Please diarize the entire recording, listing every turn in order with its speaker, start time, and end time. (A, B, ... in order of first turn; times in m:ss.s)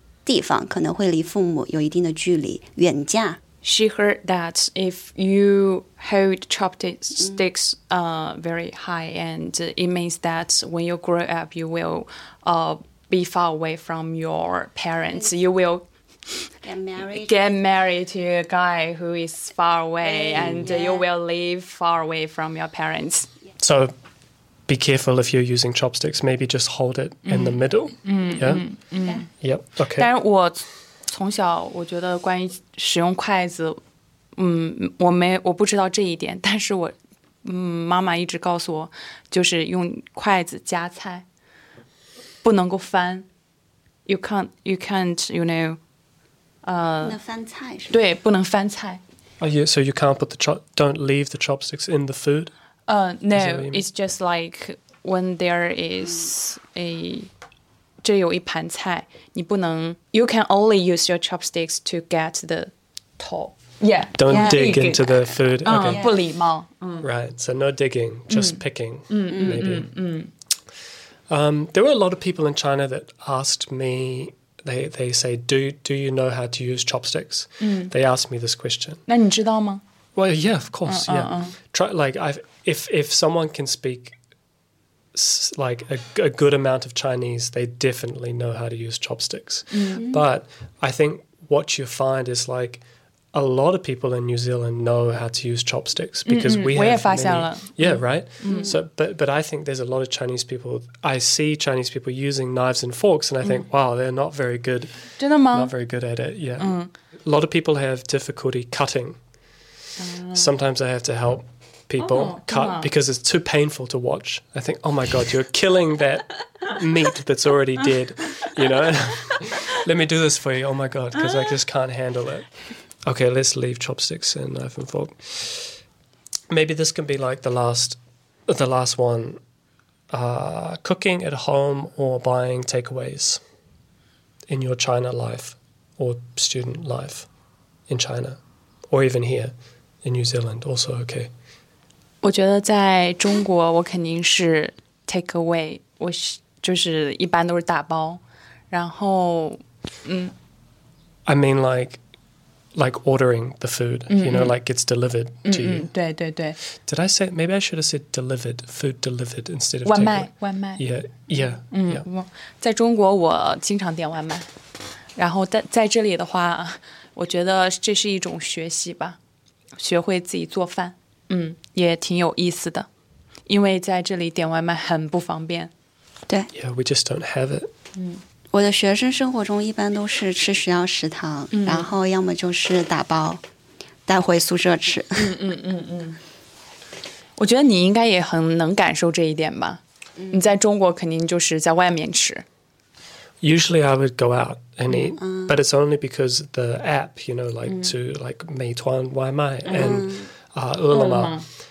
0:00.2-0:03.4 A
0:03.6-0:16.4 B
0:16.6-0:17.6 A
0:17.1-0:23.3 B
0:20.0-0:21.0 A
0:23.6-0:23.9 C
0:24.7-0:28.7 C
0:27.3-0:29.3 B
0:29.4-0:30.1 C
0:30.0-0:33.8 B
0:34.4-0:41.2 B
0:42.4-0:43.3 B
0:44.0-0:45.8 B
0:46.6-0:47.2 B
0:47.0-0:47.9 A
0:47.9-0:49.0 B
0:49.4-0:52.5 C
0:52.9-0:57.3 B
0:53.3-0:53.8 C
0:58.0-1:07.0 B
1:04.2-1:06.1 C
1:04.3-1:04.8 A
1:05.8-1:06.2 A
1:07.0-1:09.9 C
1:08.3-1:10.3 B
1:09.3-1:09.6 A
1:11.3-1:19.0 C
1:17.6-1:17.9 B
1:19.1-1:19.8 B
1:20.2-1:24.2 C
1:20.9-1:21.5 B
1:25.1-1:49.2 C
1:29.7-1:30.2 B
1:36.2-1:38.7 B
1:45.2-1:45.7 B
1:46.6-1:46.9 B
1:50.0-1:50.5 B
1:50.3-2:02.5 C
1:52.0-1:52.9 B
2:01.3-2:01.5 B
2:03.0-2:05.8 C
2:06.5-2:09.4 C
2:10.1-2:13.4 C
2:14.5-2:17.3 C
2:17.9-2:18.4 C
2:18.9-2:21.3 C
2:22.2-2:30.3 B
2:31.3-2:32.0 C
2:32.7-2:35.9 C
2:34.1-2:34.5 B
2:35.4-2:36.6 B
2:36.8-2:42.0 C
2:39.8-2:40.8 B
2:41.7-2:44.5 B
2:45.2-2:49.2 B
2:49.8-2:52.9 B
2:53.5-2:55.7 B
2:56.5-2:57.7 C
2:58.0-2:58.2 B
2:58.5-3:03.4 A
3:01.5-3:01.9 B
3:04.0-3:05.4 A
3:05.2-3:06.2 B
3:07.4-3:09.8 B
3:10.2-3:10.5 A
3:10.3-3:12.4 B
3:13.4-3:21.4 C
3:15.2-3:15.5 A
3:17.7-3:17.9 B
3:19.7-3:20.3 A
3:20.9-3:21.4 B